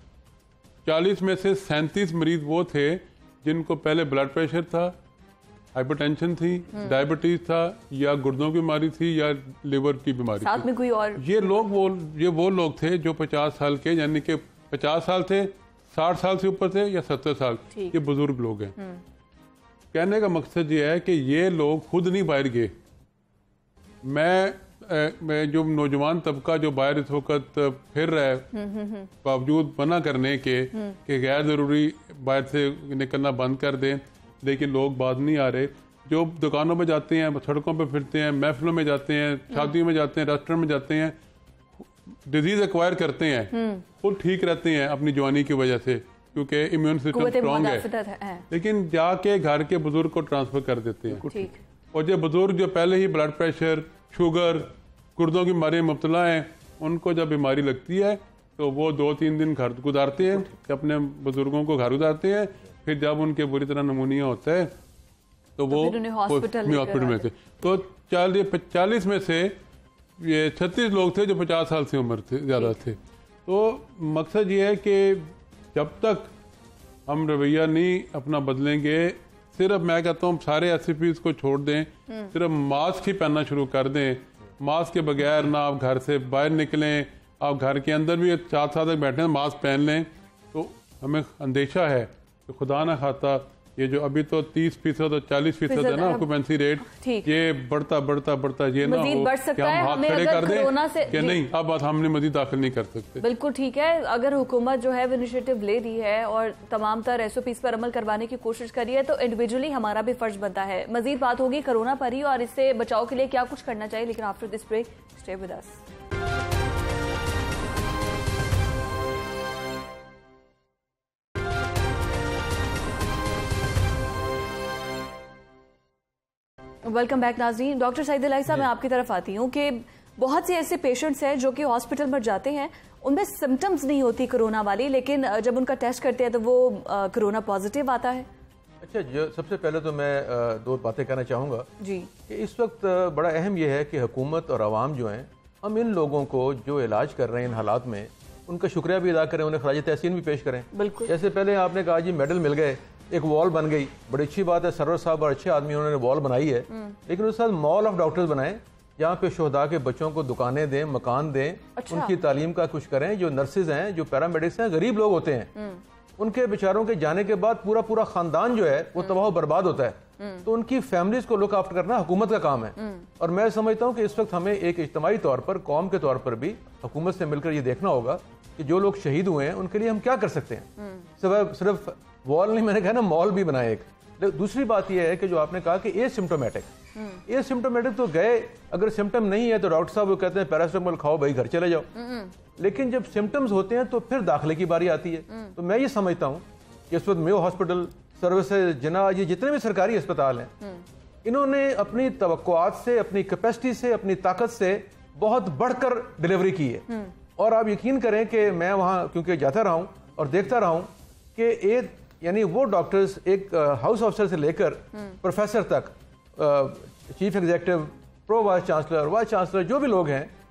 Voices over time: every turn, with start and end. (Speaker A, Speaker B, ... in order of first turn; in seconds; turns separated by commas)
Speaker A: 0.8-4.9, Speaker A: 5.7-18.8, Speaker B: 10.4-11.2, Speaker B: 18.8-19.0, Speaker A: 19.9-22.7, Speaker A: 24.0-28.6, Speaker B: 28.5-29.1, Speaker A: 29.1-41.2, Speaker A: 42.3-47.9, Speaker B: 43.5-43.8, Speaker B: 47.1-48.5, Speaker A: 48.5-64.7, Speaker B: 51.3-51.6, Speaker A: 65.6-69.6, Speaker B: 65.7-67.3, Speaker A: 70.2-76.3, Speaker A: 77.1-103.2, Speaker B: 95.7-96.3, Speaker B: 96.9-97.3, Speaker B: 98.8-101.4, Speaker B: 103.2-115.8, Speaker B: 126.8-138.3, Speaker C: 138.8-141.7, Speaker B: 141.8-142.1, Speaker C: 142.3-165.5, Speaker B: 150.7-151.1, Speaker B: 161.8-162.1, Speaker C: 166.2-186.7, Speaker B: 170.2-170.4, Speaker B: 172.8-173.1, Speaker B: 187.0-187.2, Speaker C: 187.3-191.9, Speaker B: 192.0-192.3, Speaker C: 192.6-200.5, Speaker C: 201.2-206.9, Speaker C: 207.4-220.3